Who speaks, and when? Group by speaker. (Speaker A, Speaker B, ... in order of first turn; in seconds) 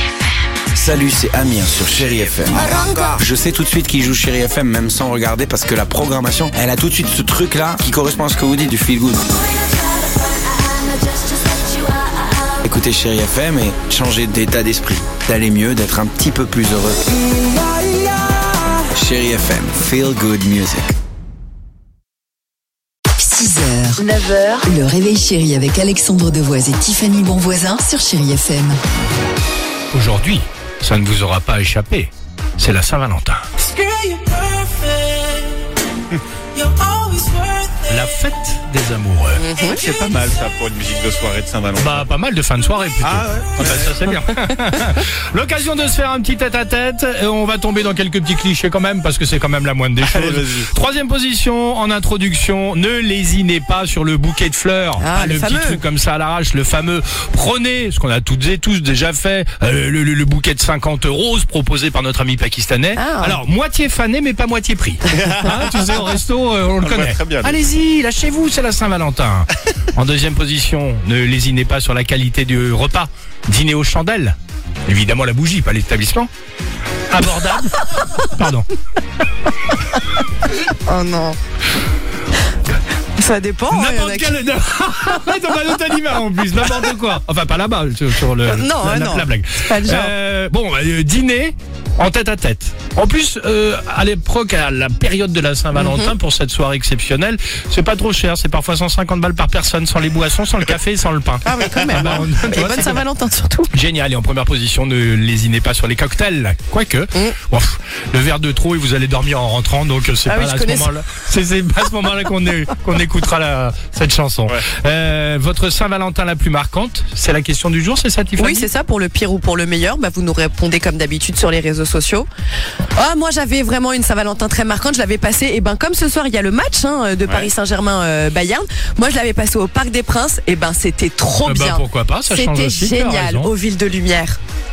Speaker A: 0.7-9.3, 12.5-17.0, 18.9-20.9
Speaker B: 23.2-24.1, 24.6-28.8
Speaker C: 24.1-24.6, 33.9-35.0, 36.8-37.5
Speaker D: 29.9-33.6, 37.9-39.4, 41.8-76.3, 77.1-78.7, 83.7-103.0, 103.7-118.7, 131.4-133.5
Speaker E: 39.4-39.8, 55.0-55.8, 63.0-63.4, 80.6-81.4, 83.1-84.4, 88.4-90.1, 95.7-96.1, 101.4-103.7, 110.2-110.9, 118.4-122.3, 122.9-134.4
Speaker F: 39.6-42.1, 43.0-44.0, 50.0-50.7, 65.1-66.0, 66.8-67.6